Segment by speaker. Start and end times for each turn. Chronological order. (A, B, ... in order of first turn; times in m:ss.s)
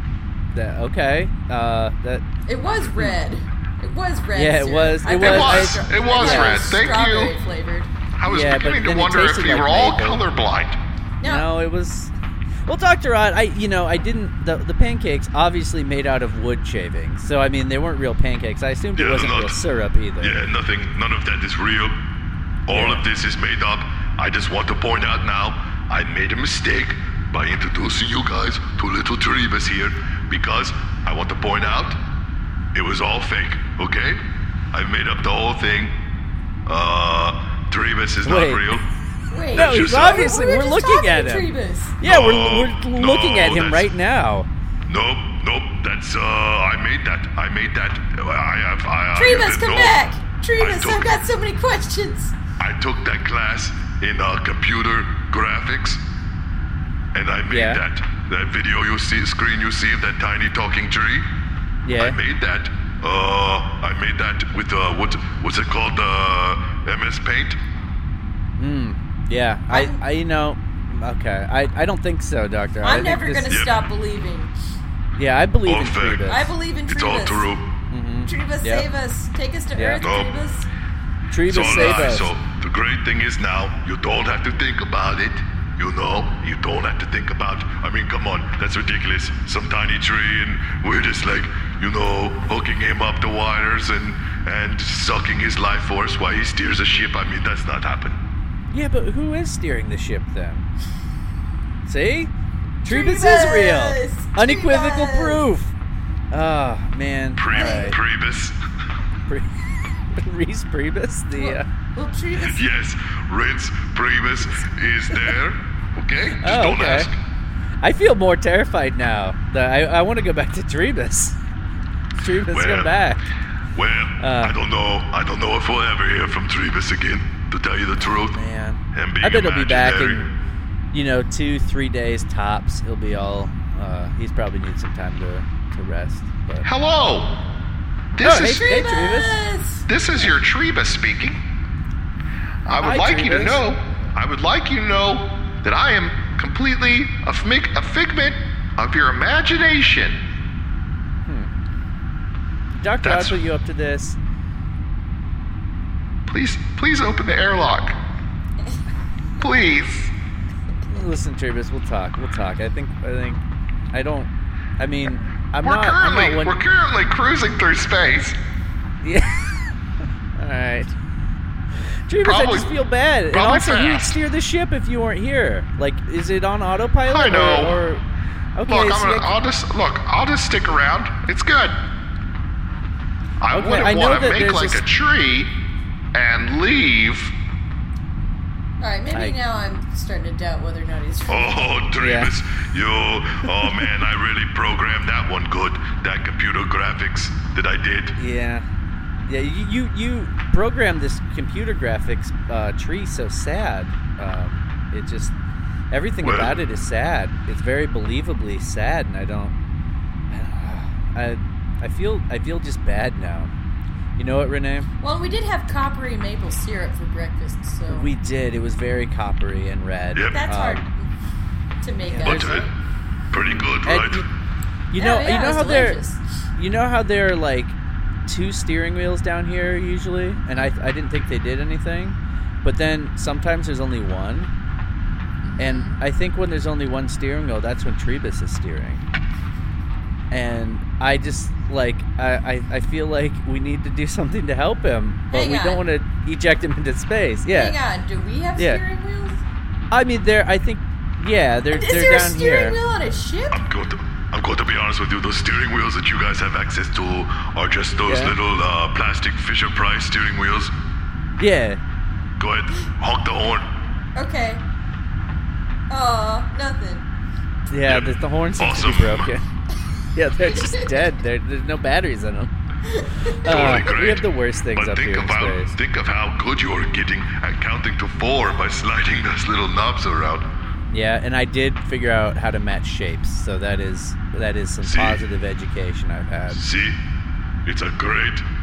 0:00.5-0:02.3 A
0:02.5-0:07.9 B
0:04.4-0:06.6 A
0:05.2-0:07.4 C
0:08.2-0:10.8 C
0:08.3-0:10.2 A
0:11.2-0:11.5 B
0:11.2-0:12.1 A
0:12.7-0:20.4 A
0:19.0-0:19.6 D
0:20.2-0:22.0 D
0:22.7-0:32.0 D
0:22.7-0:23.0 A
0:32.7-0:34.2 D
0:34.7-0:35.9 D
0:36.7-0:38.9 D
0:38.2-0:38.8 A
0:39.3-0:42.0 B
0:39.5-0:41.5 A
0:39.6-0:40.3 D
0:42.0-0:44.5 A
0:42.0-0:43.9 D
0:44.9-0:50.0 D
0:49.2-0:52.4 B
0:50.6-0:51.2 D
0:52.6-0:56.0 D
0:57.1-1:01.3 D
0:57.5-0:57.8 A
1:01.8-1:02.2 A
1:02.0-1:07.6 D
1:08.6-1:13.6 A
1:09.7-1:10.0 B
1:12.8-1:14.5 B
1:15.2-1:16.4 A
1:15.6-1:17.7 D
1:16.3-1:17.5 B
1:17.9-1:18.9 A
1:18.3-1:20.7 B
1:19.8-1:20.0 A
1:20.0-1:20.4 D
1:21.3-1:22.3 A
1:21.5-1:38.2 D
1:38.7-1:40.7 A
1:41.9-1:42.3 A
1:42.8-1:45.7 A
1:42.9-1:45.4 B
1:46.3-1:48.0 A
1:47.4-1:48.6 D
1:47.5-1:48.0 B
1:49.3-1:51.7 A
1:51.4-1:52.6 B
1:52.4-1:57.2 D
1:56.4-1:57.1 A
1:57.8-2:01.4 A
2:02.2-2:03.2 A
2:02.5-2:02.9 D
2:03.7-2:08.4 D
2:04.2-2:04.6 A
2:08.0-2:10.3 A
2:08.9-2:10.3 D
2:10.9-2:16.7 A
2:16.6-2:17.4 C
2:18.2-2:18.6 C
2:18.2-2:19.4 A
2:18.2-2:19.9 B
2:19.9-2:21.4 C
2:22.7-2:30.2 C
2:22.7-2:23.6 A
2:31.3-2:31.5 A
2:32.8-2:34.2 A
2:33.0-2:33.4 C
2:36.3-2:38.0 C
2:39.4-2:40.1 C
2:40.9-2:43.4 A
2:43.9-2:46.6 A
2:45.6-2:48.4 C
2:49.0-2:49.7 A
2:50.4-2:51.0 A
2:52.1-2:58.0 A
2:52.2-2:52.7 C
2:53.3-2:54.2 C
2:57.1-2:57.8 C
2:58.6-2:59.3 A
2:58.7-3:01.8 C
3:03.4-3:05.5 C
3:03.5-3:04.8 A
3:06.1-3:07.4 C
3:08.8-3:11.9 B
3:11.3-3:18.2 D
3:12.0-3:12.3 A
3:18.2-3:18.6 A
3:19.3-3:25.4 A
3:25.9-3:29.6 A
3:26.2-3:26.6 D
3:30.3-3:33.5 A
3:34.2-3:34.9 A
3:35.0-3:38.1 B
3:37.9-3:40.8 A
3:40.2-3:40.5 D
3:40.3-3:41.1 B
3:41.8-3:42.7 B
3:42.0-3:42.6 A
3:42.2-3:42.7 D
3:43.3-3:44.3 D
3:43.4-3:44.3 A
3:44.9-3:46.0 A
3:45.0-3:46.4 B
3:46.6-3:54.5 A
3:55.4-3:56.0 B
3:55.6-3:59.0 A
4:00.3-4:07.8 A
4:05.3-4:05.8 B
4:07.5-4:09.4 B
4:08.6-4:08.8 A
4:09.9-4:12.8 A
4:11.7-4:13.6 B
4:13.5-4:20.7 D
4:18.1-4:18.4 A
4:21.4-4:21.8 A
4:22.4-4:23.7 D
4:24.2-4:24.6 B
4:25.9-4:27.1 B
4:27.7-4:29.5 A
4:27.9-4:29.3 D
4:30.1-4:32.5 A
4:30.5-4:30.9 B
4:32.9-4:33.3 B
4:33.4-4:35.8 A
4:33.4-4:40.5 D
4:40.9-4:46.6 A
4:44.8-4:45.2 D
4:46.5-4:47.0 D
4:47.6-4:48.5 D